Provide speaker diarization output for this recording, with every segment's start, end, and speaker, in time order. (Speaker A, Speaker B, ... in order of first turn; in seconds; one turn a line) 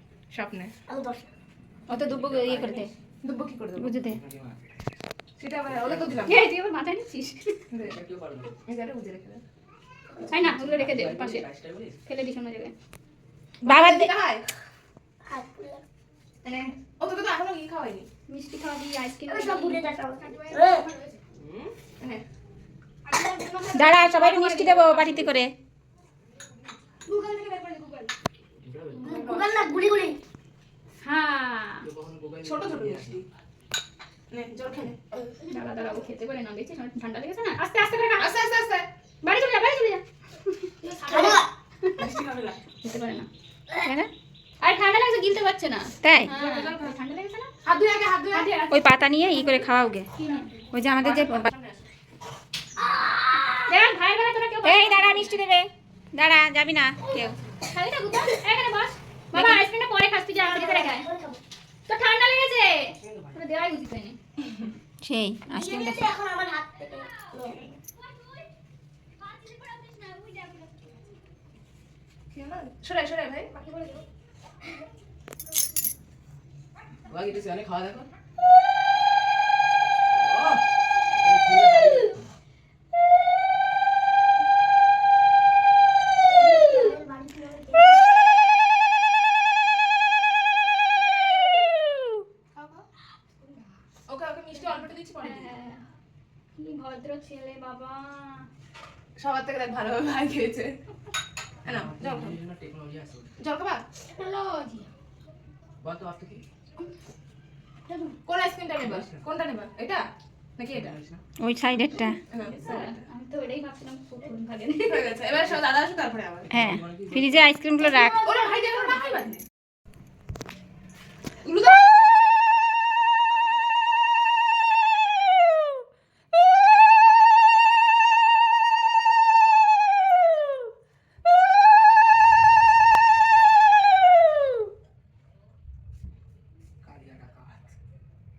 Speaker A: 0.3-0.7
Speaker B: 0.9-1.3
Speaker C: 1.9-2.9
Speaker A: 2.0-4.0
Speaker D: 2.1-2.4
Speaker C: 3.8-4.2
Speaker D: 4.1-4.6
Speaker A: 5.4-6.5
Speaker D: 5.8-6.2
Speaker E: 6.2-7.6
Speaker D: 7.8-8.6
Speaker A: 8.7-9.4
Speaker D: 10.3-11.9
Speaker E: 10.3-11.5
Speaker E: 12.1-12.7
Speaker A: 13.6-14.4
Speaker C: 13.6-14.1
Speaker B: 15.3-15.8
Speaker E: 16.4-16.7
Speaker A: 16.9-18.1
Speaker E: 18.3-19.9
Speaker B: 19.3-20.9
Speaker D: 21.3-21.7
Speaker A: 22.0-22.2
Speaker B: 23.1-23.6
Speaker E: 23.4-25.3
Speaker C: 23.7-25.5
Speaker B: 27.1-28.1
Speaker D: 28.6-29.3
Speaker A: 29.0-29.7
Speaker B: 29.0-30.2
Speaker E: 31.0-31.9
Speaker D: 31.8-33.2
Speaker A: 32.4-33.2
Speaker A: 34.3-35.1
Speaker E: 35.5-38.3
Speaker A: 38.2-38.9
Speaker E: 39.2-42.0
Speaker B: 40.8-41.5
Speaker A: 41.9-42.6
Speaker E: 42.8-43.3
Speaker C: 43.8-44.1
Speaker E: 44.6-47.5
Speaker C: 46.0-46.3
Speaker A: 46.3-46.9
Speaker A: 47.6-48.5
Speaker E: 48.3-50.5
Speaker C: 48.7-50.1
Speaker C: 50.7-51.5
Speaker A: 51.0-51.9
Speaker B: 52.8-53.7
Speaker E: 53.7-55.4
Speaker C: 54.6-57.4
Speaker E: 57.6-61.1
Speaker C: 59.3-59.6
Speaker B: 60.4-61.4
Speaker E: 61.9-64.2
Speaker D: 63.0-63.4
Speaker C: 65.0-66.0
Speaker B: 65.5-67.6
Speaker A: 72.3-73.5
Speaker B: 73.5-74.0
Speaker D: 77.1-78.1
Speaker D: 80.1-80.6
Speaker D: 81.2-82.2
Speaker B: 86.3-88.0
Speaker E: 86.4-86.9
Speaker A: 94.1-95.5
Speaker E: 95.2-95.8
Speaker E: 96.6-98.5
Speaker A: 99.2-100.7
Speaker A: 101.6-102.4
Speaker D: 101.6-103.3
Speaker A: 103.4-103.8
Speaker B: 104.1-104.9
Speaker D: 105.8-106.4
Speaker A: 108.2-110.0
Speaker D: 108.8-109.2
Speaker A: 110.6-111.0
Speaker D: 110.7-111.2
Speaker C: 111.4-112.2
Speaker A: 112.3-113.0
Speaker D: 112.5-112.8
Speaker E: 112.5-115.2
Speaker A: 114.8-116.6
Speaker D: 116.5-117.3
Speaker C: 116.5-118.2
Speaker B: 117.9-118.5
Speaker A: 118.2-119.4
Speaker A: 121.4-121.8
Speaker D: 136.8-137.7